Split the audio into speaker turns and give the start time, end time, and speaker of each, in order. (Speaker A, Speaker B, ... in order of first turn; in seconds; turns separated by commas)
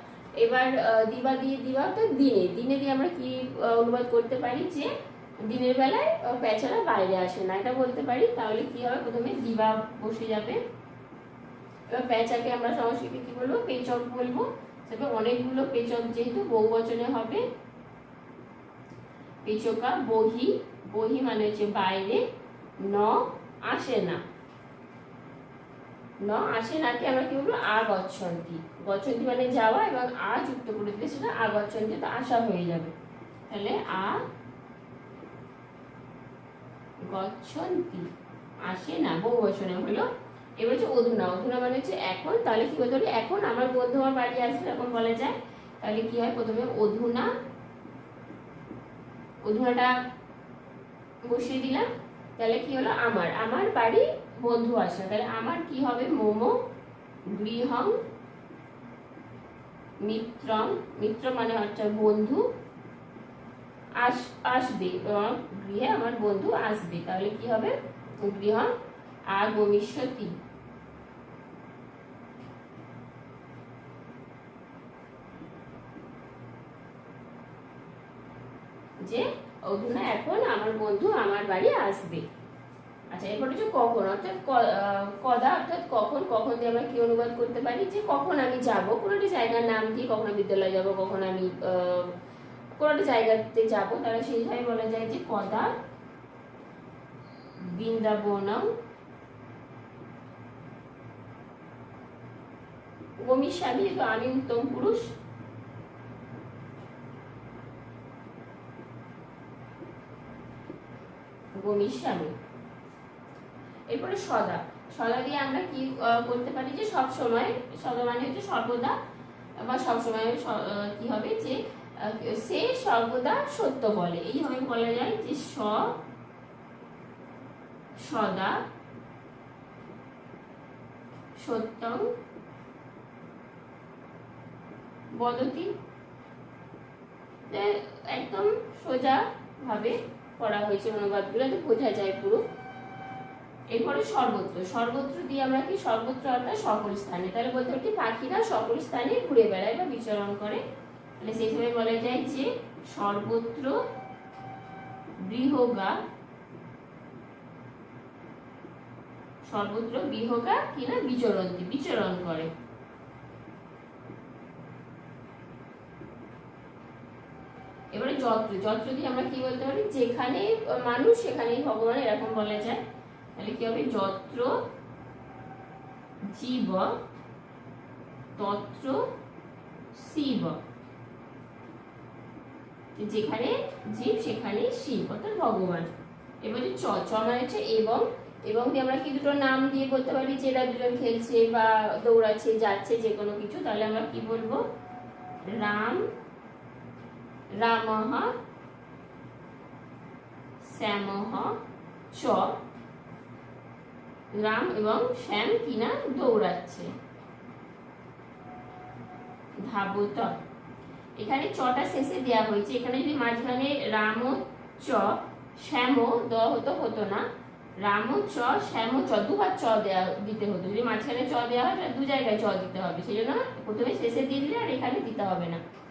Speaker A: 0.4-10.6, Speaker A: 11.9-17.5, Speaker A: 19.4-22.2, Speaker A: 22.8-24.2, Speaker A: 26.2-32.9, Speaker A: 33.5-34.2, Speaker A: 37.0-38.1, Speaker A: 38.6-40.1, Speaker A: 40.6-47.3, Speaker A: 49.5-49.9, Speaker A: 51.3-56.6, Speaker A: 57.3-58.0, Speaker A: 60.0-62.5, Speaker A: 64.0-68.7, Speaker A: 69.3-70.4, Speaker A: 79.0-82.2, Speaker A: 83.1-92.1, Speaker A: 92.8-95.7, Speaker A: 97.6-98.7, Speaker A: 103.2-105.1, Speaker A: 111.6-112.3, Speaker A: 113.9-119.0, Speaker A: 119.6-126.0, Speaker A: 128.0-128.6, Speaker A: 131.4-132.1, Speaker A: 135.2-135.7, Speaker A: 137.5-142.4, Speaker A: 143.7-150.6, Speaker A: 151.2-153.7, Speaker A: 155.2-156.0, Speaker A: 159.5-162.5, Speaker A: 167.9-172.8, Speaker A: 173.4-174.6, Speaker A: 176.3-176.9, Speaker A: 178.4-179.1, Speaker A: 179.9-180.6, Speaker A: 183.0-185.9, Speaker A: 186.4-194.6, Speaker A: 195.5-196.0, Speaker A: 197.6-198.3, Speaker A: 200.6-201.6, Speaker A: 202.1-202.6, Speaker A: 204.4-206.9, Speaker A: 209.7-210.3, Speaker A: 211.2-217.2, Speaker A: 217.8-225.6